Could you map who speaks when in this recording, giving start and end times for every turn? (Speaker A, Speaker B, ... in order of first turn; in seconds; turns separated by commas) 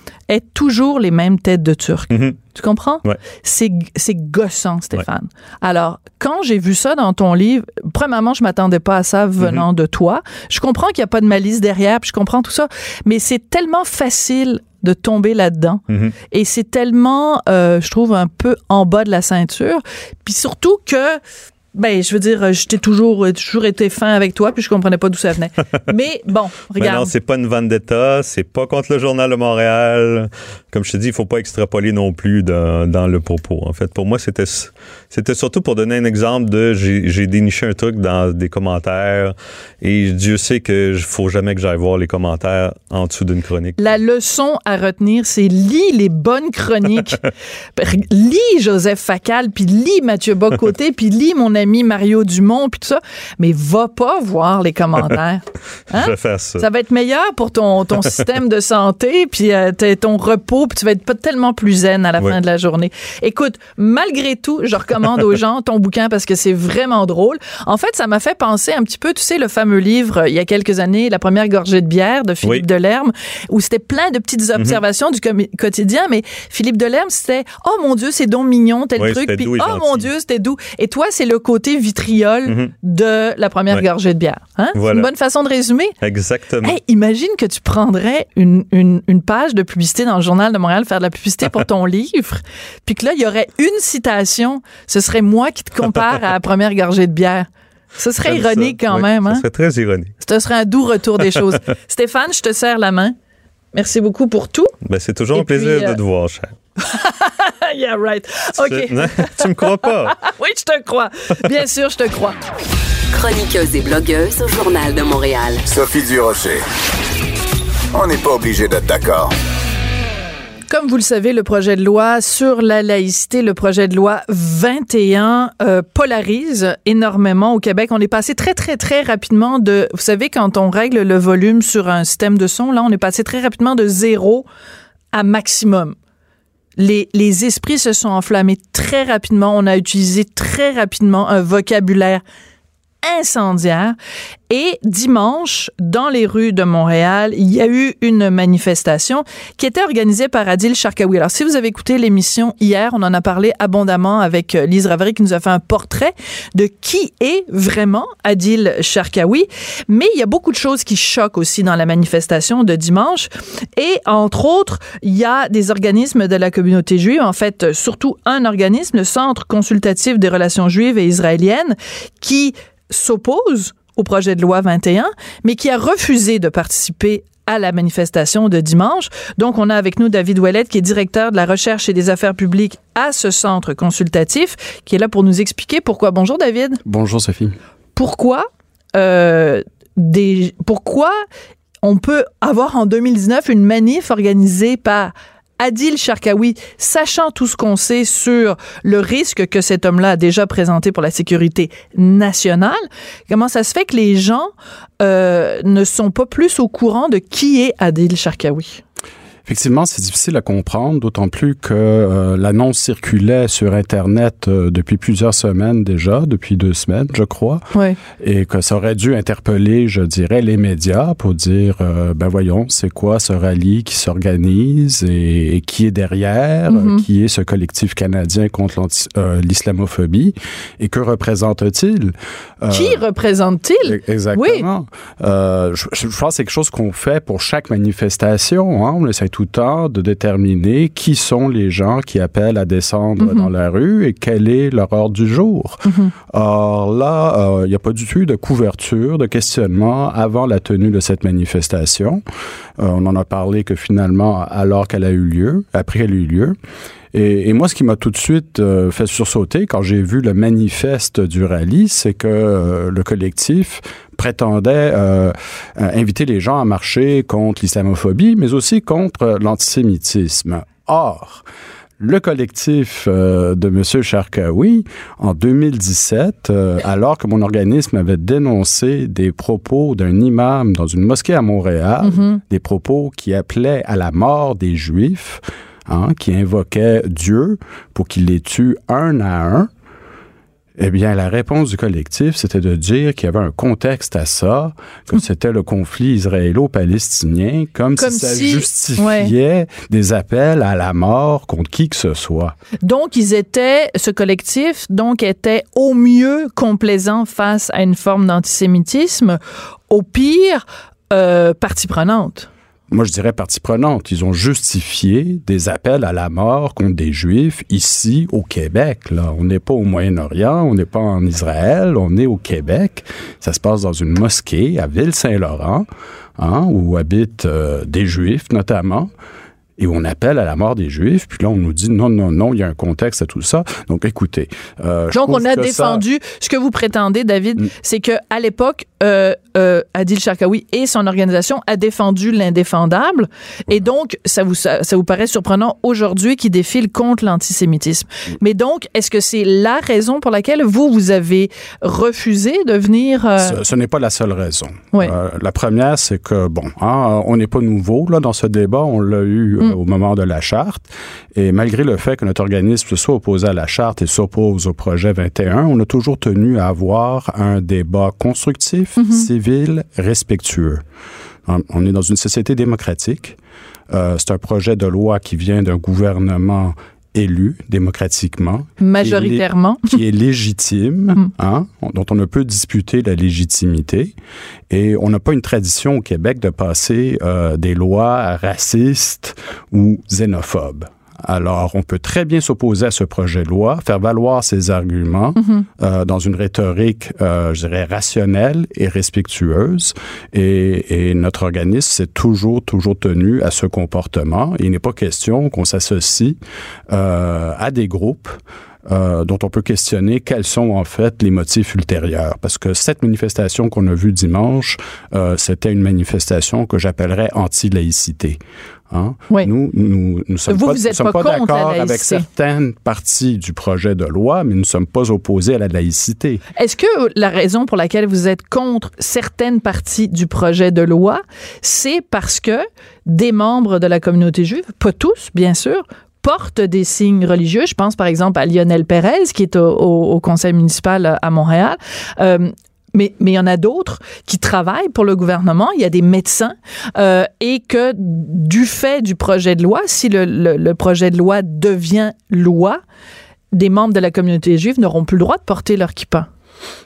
Speaker A: 0.3-21.2, Speaker B: 2.1-2.4, Speaker B: 9.4-9.7, Speaker B: 15.9-16.1, Speaker A: 21.7-27.1, Speaker B: 26.8-43.8, Speaker A: 43.8-47.2, Speaker A: 47.8-86.0, Speaker B: 55.9-56.7, Speaker B: 74.5-74.8, Speaker B: 79.0-80.1, Speaker B: 82.5-82.7, Speaker B: 84.7-85.1, Speaker B: 86.0-86.8, Speaker A: 86.6-99.5, Speaker B: 98.2-100.2, Speaker A: 100.2-103.2, Speaker A: 103.7-104.7, Speaker B: 104.8-106.6, Speaker A: 105.3-106.0, Speaker A: 106.8-112.4, Speaker B: 108.6-110.2, Speaker C: 113.1-115.7, Speaker D: 115.7-116.6, Speaker D: 117.9-119.3, Speaker A: 120.7-134.4, Speaker A: 135.1-136.0, Speaker A: 136.8-142.2, Speaker A: 143.0-144.0, Speaker A: 144.5-186.8, Speaker E: 186.8-187.6, Speaker A: 188.0-191.2, Speaker A: 191.8-204.5, Speaker A: 205.0-208.8, Speaker E: 209.5-217.7, Speaker E: 218.2-233.0, Speaker A: 226.7-227.0, Speaker A: 232.7-234.7, Speaker E: 233.8-252.2, Speaker A: 243.2-243.5, Speaker A: 245.8-246.1, Speaker E: 252.8-256.6, Speaker E: 257.1-271.4, Speaker E: 272.0-289.7, Speaker A: 282.0-282.4, Speaker E: 290.8-302.6, Speaker A: 298.0-299.3, Speaker A: 302.8-309.4, Speaker A: 309.9-312.5, Speaker E: 312.9-325.9, Speaker E: 326.4-329.1, Speaker E: 329.8-336.0, Speaker A: 335.1-353.6, Speaker E: 353.4-370.8, Speaker A: 369.0-369.3, Speaker E: 371.5-373.4, Speaker E: 373.9-384.1, Speaker A: 378.8-380.0, Speaker E: 384.7-406.4, Speaker A: 395.4-395.7, Speaker E: 406.9-426.4, Speaker A: 420.5-422.3, Speaker A: 426.6-452.8, Speaker A: 453.5-456.3